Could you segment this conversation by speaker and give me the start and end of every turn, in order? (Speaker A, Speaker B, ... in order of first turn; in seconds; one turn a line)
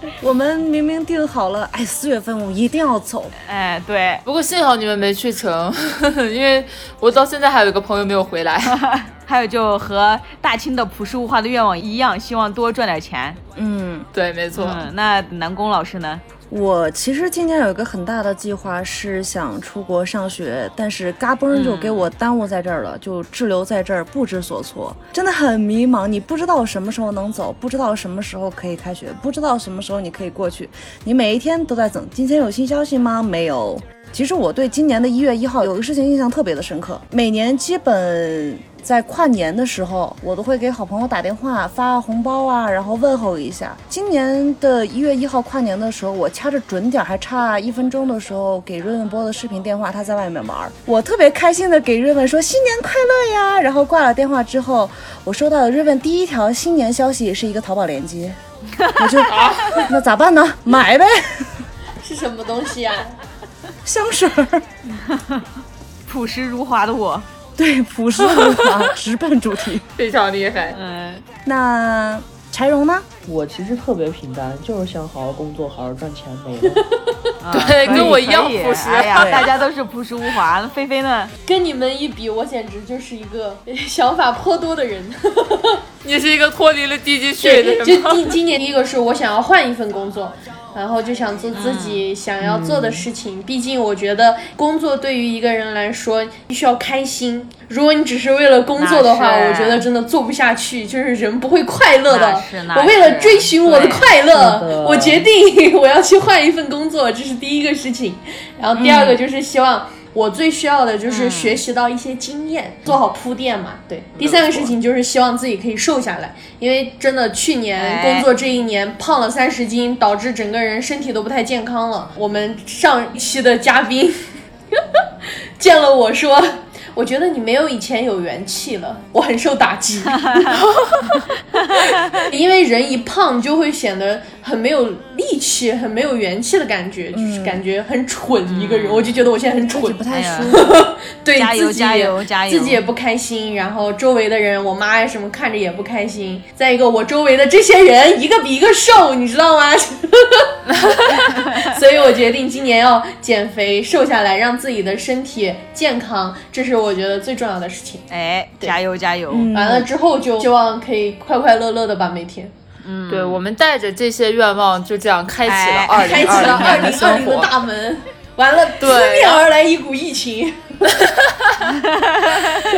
Speaker A: 0.2-3.3
Speaker B: 3.4-4.2
Speaker C: 4.2-8.8
Speaker B: 8.7-13.4
Speaker A: 13.6-14.1
Speaker C: 14.1-14.9
Speaker B: 14.5-16.2
Speaker A: 16.5-58.4
Speaker B: 21.5-22.1
Speaker B: 58.8-59.2
Speaker A: 59.0-61.5
Speaker C: 59.2-59.9
Speaker D: 62.0-63.2
Speaker A: 63.8-64.7
Speaker B: 64.9-65.5
Speaker B: 66.1-67.2
Speaker A: 67.6-69.8
Speaker C: 68.2-68.9
Speaker C: 70.0-70.8
Speaker B: 70.7-71.2
Speaker A: 71.4-73.1
Speaker E: 73.2-76.8
Speaker D: 76.7-77.3
Speaker B: 77.4-81.3
Speaker C: 77.5-79.4
Speaker A: 79.2-79.5
Speaker D: 81.4-85.8
Speaker C: 86.0-88.3
Speaker D: 87.4-124.8
Speaker B: 91.5-92.0
Speaker E: 92.4-93.1
Speaker B: 98.8-99.8
Speaker B: 102.1-104.2
Speaker E: 104.3-105.3
Speaker A: 108.8-109.2
Speaker B: 111.1-111.6
Speaker B: 114.2-114.7
Speaker B: 117.8-118.3
Speaker D: 125.6-130.5
Speaker B: 130.2-130.5
Speaker B: 131.7-132.3
Speaker D: 132.1-140.0
Speaker A: 137.1-137.6
Speaker B: 138.4-139.2
Speaker A: 139.7-140.8
Speaker B: 140.1-140.6
Speaker D: 140.5-150.6
Speaker B: 141.3-142.8
Speaker C: 150.9-151.2
Speaker D: 151.1-158.0
Speaker B: 158.1-159.5
Speaker A: 159.3-159.9
Speaker D: 159.5-162.5
Speaker B: 162.8-163.4
Speaker C: 163.1-167.5
Speaker B: 165.4-167.1
Speaker D: 166.0-170.8
Speaker C: 168.8-169.4
Speaker C: 171.2-171.7